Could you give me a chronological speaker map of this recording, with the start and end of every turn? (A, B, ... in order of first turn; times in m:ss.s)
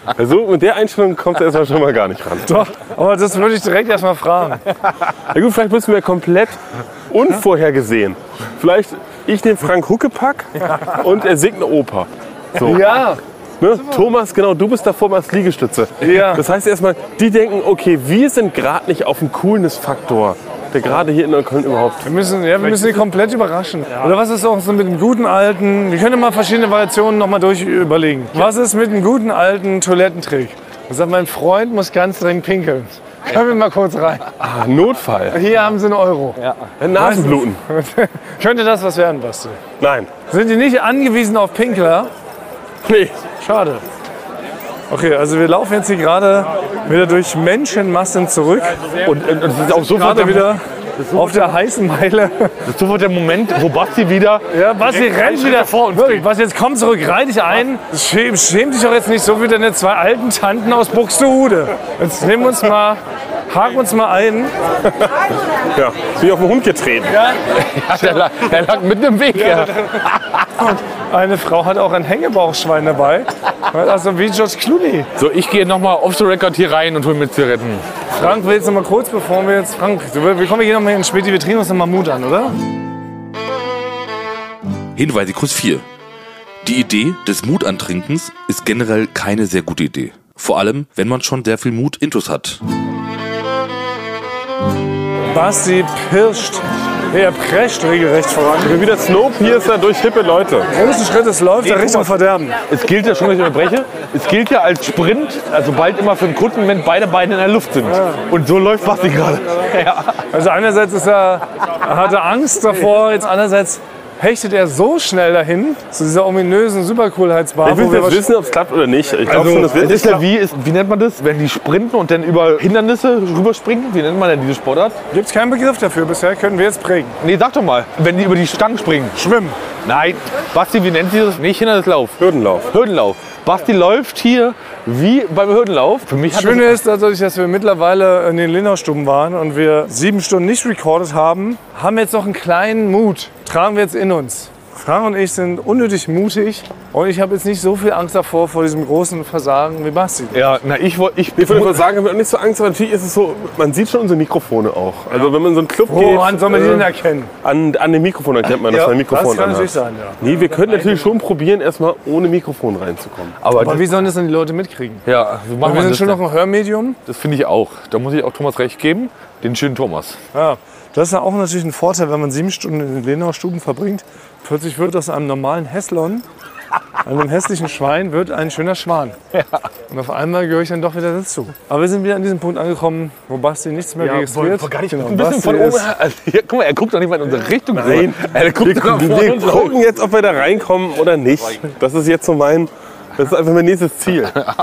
0:00.2-0:02.6 A
0:02.5-0:04.7 B
0:05.3-0:06.6 A
0:07.1-0:13.0 A
0:12.6-0:13.2 B
0:13.6-0:22.1 A
0:16.0-0:16.4 B
0:22.0-0:34.4 B
0:34.4-0:35.4 A
0:35.3-0:36.4 B
0:36.8-0:37.6 A
0:36.9-0:39.6 B
0:39.8-0:40.1 A
0:40.3-0:42.1 B
0:42.8-0:43.2 A
0:43.4-0:43.8 B
0:44.9-0:48.9 B
0:49.0-0:51.5 C
0:49.7-0:50.6 B
0:51.1-0:52.6 B
0:52.7-0:56.2 C
0:54.5-1:04.5 B
1:05.7-1:07.2 A
1:07.1-1:07.4 B
1:07.5-1:10.6 C
1:09.4-1:10.1 B
1:10.6-1:15.1 B
1:15.2-1:17.8 C
1:18.1-1:22.6 B
1:25.0-1:25.8 D
1:26.6-1:32.6 D
1:35.3-1:38.8 B
1:38.6-1:40.7 A
1:40.7-1:42.6 B
1:41.6-1:42.1 C
1:42.7-1:50.2 C
1:50.3-1:58.2 B
1:57.6-2:00.2 A
1:59.3-2:05.0 C
2:05.1-2:07.2 B
2:07.2-2:09.2 C
2:09.2-2:09.6 B
2:09.8-2:12.2 C
2:12.2-2:12.7 A
2:12.7-2:16.8 C
2:16.3-2:30.5 B
2:30.3-2:31.8 C
2:31.4-2:36.9 A
2:35.9-2:37.3 B
2:37.4-2:43.4 A
2:38.7-2:40.2 B
2:43.4-2:43.9 C
2:43.6-2:45.0 B
2:45.0-2:46.2 C
2:45.6-2:47.0 B
2:47.1-2:50.2 C
2:50.3-2:56.2 B
2:57.0-2:59.2 B
2:59.3-2:59.6 C
2:59.9-3:05.9 B
3:04.0-3:09.8 C
3:07.7-3:14.4 A